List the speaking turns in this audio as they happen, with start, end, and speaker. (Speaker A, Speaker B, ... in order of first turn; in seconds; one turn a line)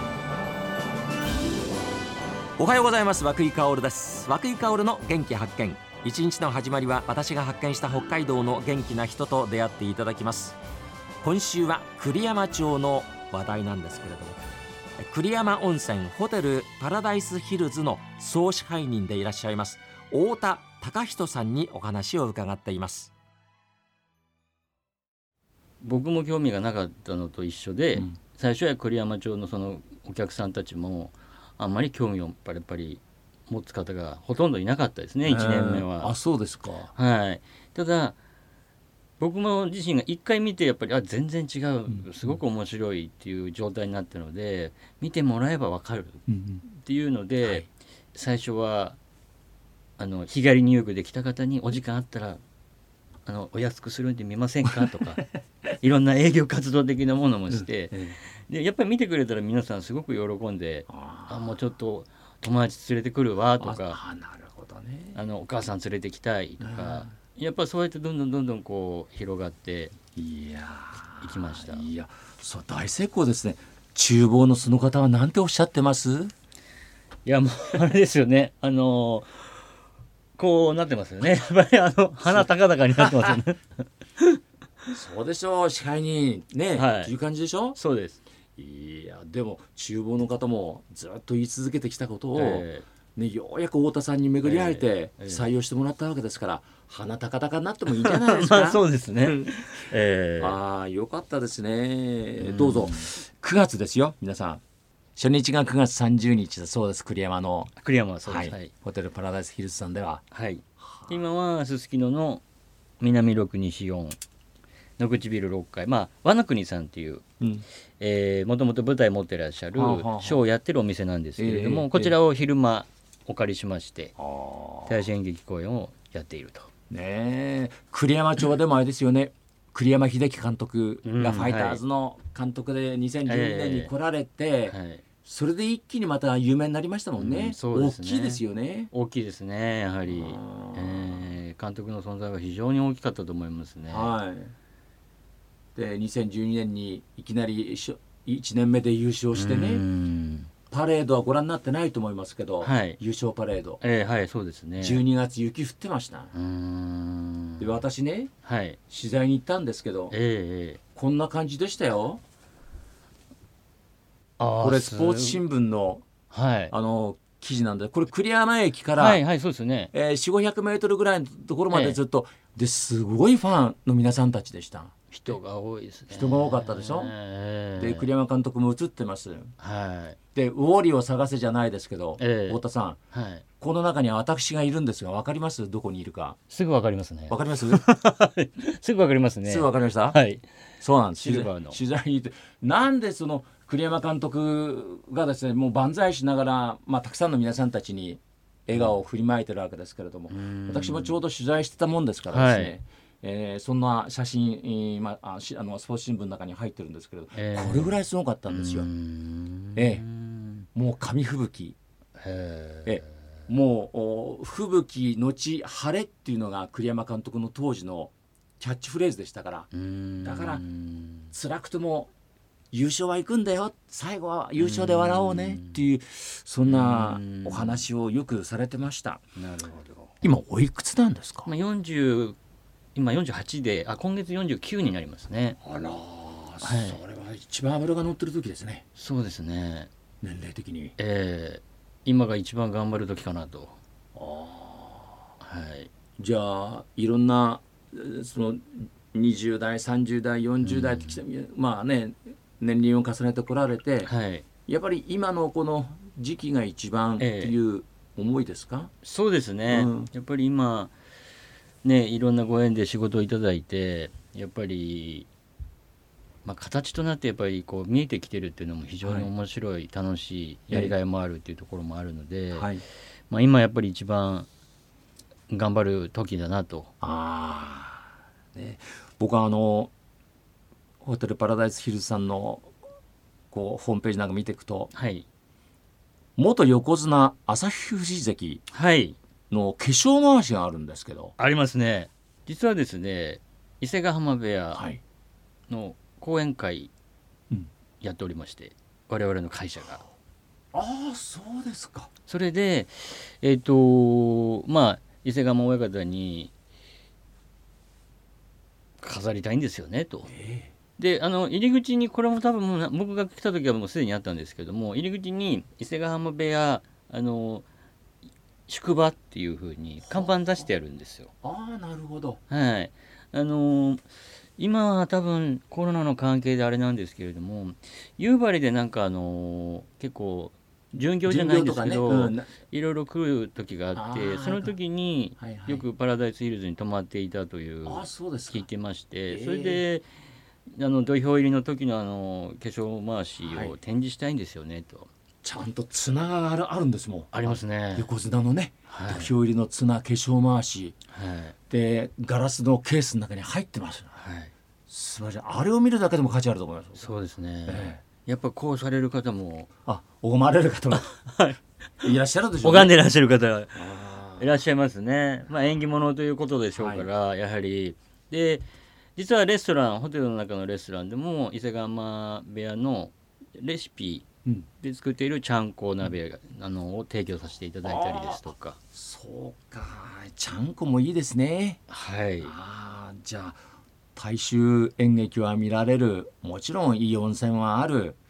Speaker A: 2.6-10.5
Speaker B: 3.6-4.2
Speaker B: 4.9-6.0
Speaker B: 6.6-6.9
Speaker B: 7.9-10.3
Speaker A: 11.2-14.3
Speaker B: 11.3-14.3
Speaker A: 15.1-23.1
Speaker B: 15.1-16.5
Speaker B: 17.6-18.2
Speaker B: 19.0-19.5
Speaker B: 21.0-22.8
Speaker C: 25.8-36.1
Speaker B: 35.2-36.9
Speaker C: 36.9-38.2
Speaker C: 39.2-49.0
Speaker B: 41.9-42.3
Speaker B: 46.3-46.6
Speaker C: 50.0-52.4
Speaker C: 53.2-64.0
Speaker B: 57.5-58.2
Speaker B: 60.9-61.6
Speaker B: 63.6-65.2
Speaker C: 65.1-69.9
Speaker B: 66.6-67.1
Speaker B: 70.1-76.3
Speaker C: 71.2-71.8
Speaker C: 77.2-79.4
Speaker C: 80.4-83.6
Speaker B: 82.2-83.4
Speaker B: 84.9-87.8
Speaker C: 86.8-87.1
Speaker C: 87.7-88.2
Speaker B: 88.5-99.5
Speaker C: 92.3-92.8
Speaker C: 94.4-95.4
Speaker C: 98.0-100.6
Speaker B: 100.4-104.6
Speaker C: 102.4-103.1
Speaker B: 105.2-110.2
Speaker C: 107.8-108.7
Speaker C: 110.3-112.4
Speaker B: 110.8-111.2
Speaker C: 113.0-114.2
Speaker C: 115.0-117.2
Speaker B: 117.4-117.7
Speaker C: 118.0-124.1
Speaker B: 119.7-120.5
Speaker B: 121.4-122.2
Speaker B: 124.2-125.0
Speaker C: 124.9-126.7
Speaker B: 126.9-138.9
Speaker C: 131.0-131.8
Speaker C: 133.2-133.9
Speaker C: 134.7-135.0
Speaker C: 137.2-144.1
Speaker B: 140.1-141.3
Speaker B: 143.9-144.5
Speaker B: 145.7-149.8
Speaker C: 149.3-150.5
Speaker B: 150.7-153.8
Speaker C: 152.6-153.0
Speaker C: 153.8-155.0
Speaker B: 154.8-156.3
Speaker C: 156.3-157.8
Speaker B: 157.6-158.3
Speaker C: 158.4-158.8
Speaker B: 158.9-160.1
Speaker C: 160.1-160.8
Speaker B: 160.9-162.2
Speaker C: 164.4-165.4
Speaker B: 164.6-166.0
Speaker C: 166.3-166.7
Speaker B: 166.7-169.2
Speaker C: 168.9-169.9
Speaker B: 169.9-175.4
Speaker C: 171.7-172.0
Speaker C: 175.1-178.1
Speaker B: 176.1-177.1
Speaker B: 177.8-179.5
Speaker C: 179.6-180.2
Speaker B: 180.3-183.0
Speaker C: 182.2-182.6
Speaker C: 183.1-183.4
Speaker B: 183.6-186.4
Speaker C: 186.5-190.4
Speaker B: 187.3-187.8
Speaker B: 189.4-190.2
Speaker B: 190.8-208.9
Speaker C: 191.1-191.8
Speaker C: 200.3-201.2
Speaker C: 202.3-202.7
Speaker C: 207.3-207.9
Speaker C: 208.5-210.7
Speaker B: 209.8-210.0
Speaker B: 210.7-211.8
Speaker C: 212.2-213.1
Speaker B: 212.8-219.7
Speaker C: 219.7-221.3
Speaker B: 220.2-220.6
Speaker B: 221.3-222.1
Speaker B: 222.7-229.2
Speaker C: 224.6-225.8
Speaker C: 226.7-227.8
Speaker C: 229.3-230.1
Speaker B: 230.2-231.5
Speaker C: 231.4-232.4
Speaker C: 232.9-235.6
Speaker B: 235.6-238.8
Speaker C: 236.6-237.0
Speaker C: 238.9-239.9
Speaker B: 240.2-240.9
Speaker C: 241.0-243.8
Speaker B: 244.1-245.2
Speaker C: 245.4-245.9
Speaker B: 246.2-254.1
Speaker C: 250.6-251.2
Speaker C: 254.0-254.4
Speaker B: 254.7-258.9
Speaker C: 257.2-257.6
Speaker C: 259.0-260.9
Speaker B: 259.7-260.1
Speaker C: 261.8-265.3
Speaker C: 266.4-272.7
Speaker B: 269.0-269.3
Speaker B: 270.7-270.9
Speaker B: 272.5-272.8
Speaker C: 273.3-274.5
Speaker C: 275.5-276.9
Speaker B: 277.0-279.9
Speaker B: 281.0-282.7
Speaker B: 283.5-284.9
Speaker C: 284.9-285.2
Speaker B: 286.4-288.6
Speaker C: 288.7-289.2
Speaker B: 289.5-291.4
Speaker C: 291.4-294.9
Speaker B: 294.7-295.0
Speaker C: 295.7-296.9
Speaker C: 298.0-300.0
Speaker B: 300.7-302.1
Speaker C: 302.3-306.5
Speaker C: 309.0-310.3
Speaker B: 310.3-310.7
Speaker C: 311.0-317.6
Speaker C: 318.7-321.3
Speaker B: 320.1-320.3
Speaker B: 321.4-322.4
Speaker C: 322.5-340.1
Speaker B: 331.2-332.5
Speaker B: 333.9-334.7
Speaker B: 335.4-335.9
Speaker B: 337.8-338.7
Speaker B: 339.3-339.8
Speaker C: 340.7-345.1
Speaker B: 343.4-343.7
Speaker B: 345.4-350.9
Speaker C: 347.3-348.1
Speaker C: 348.9-349.3
Speaker C: 351.1-351.5
Speaker B: 351.7-354.2
Speaker C: 354.2-354.5
Speaker B: 354.9-357.1
Speaker C: 357.0-359.7
Speaker B: 357.7-358.0
Speaker B: 359.9-361.1
Speaker C: 360.9-361.6
Speaker B: 362.0-362.9
Speaker C: 362.6-368.6
Speaker B: 363.7-364.5
Speaker B: 366.8-367.1
Speaker C: 369.1-374.2
Speaker C: 374.8-378.8
Speaker B: 377.8-381.8
Speaker C: 381.9-382.5
Speaker B: 382.4-383.6
Speaker B: 384.1-388.2